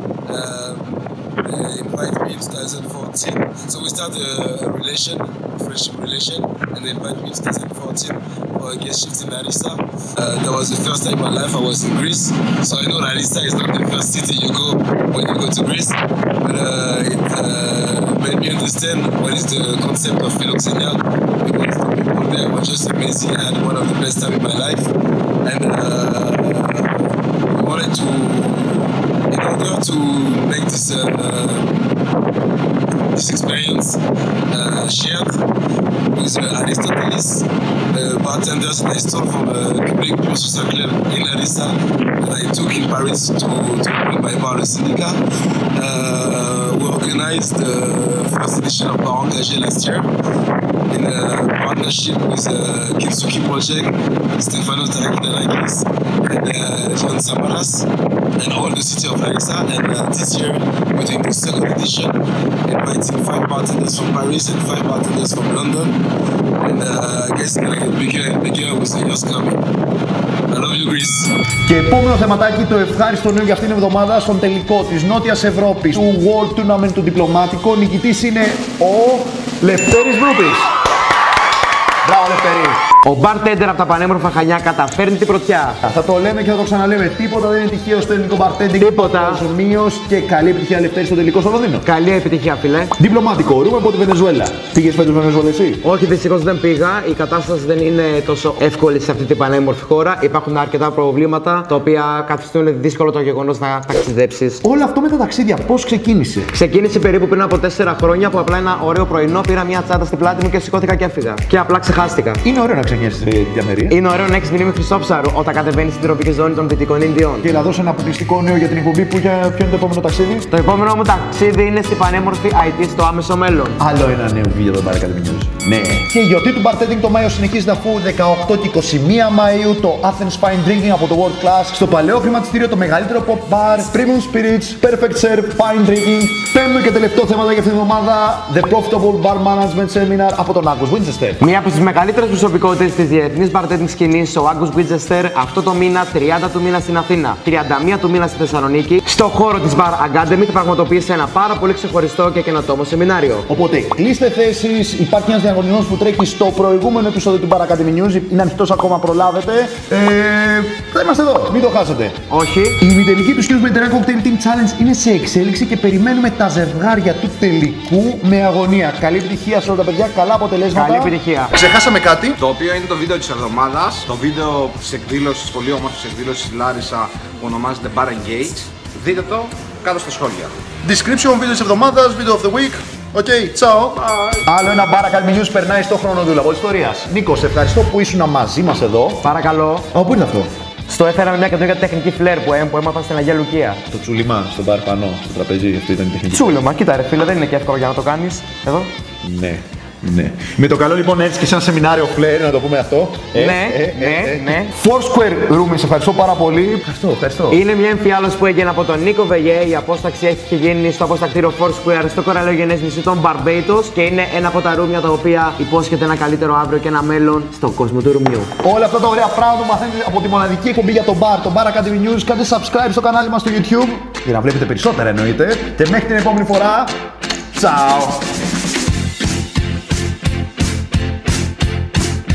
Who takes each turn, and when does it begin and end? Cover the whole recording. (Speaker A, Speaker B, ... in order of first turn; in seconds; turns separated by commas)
Speaker A: 0.3-24.9, Speaker A: 25.4-31.7, Speaker A: 33.1-34.0, Speaker A: 34.5-35.3, Speaker A: 36.1-45.2, Speaker A: 45.8-50.1, Speaker A: 50.9-62.1, Speaker A: 62.7-66.0, Speaker A: 66.6-69.6, Speaker A: 70.5-71.3, Speaker B: 71.7-80.7, Speaker B: 82.0-82.8, Speaker C: 83.0-85.8, Speaker B: 85.8-91.8, Speaker C: 88.8-89.4, Speaker C: 91.8-92.9, Speaker B: 93.0-95.8, Speaker C: 95.8-104.6, Speaker B: 104.6-106.5, Speaker C: 106.5-112.4, Speaker B: 112.4-114.0, Speaker C: 113.9-117.5, Speaker B: 117.4-120.5, Speaker C: 120.5-123.8, Speaker B: 123.8-141.4, Speaker C: 141.4-153.5, Speaker B: 153.5-162.2, Speaker C: 162.3-162.8, Speaker B: 162.8-172.4, Speaker C: 170.7-171.5, Speaker D: 172.4-180.5, Speaker B: 180.8-189.3, Speaker C: 189.2-189.9, Speaker B: 189.9-190.5, Speaker C: 190.9-193.8, Speaker B: 193.9-196.6, Speaker C: 196.3-198.9, Speaker B: 199.2-207.6, Speaker C: 203.3-204.7, Speaker C: 207.5-218.5, Speaker B: 218.6-226.9, Speaker B: 227.5-228.2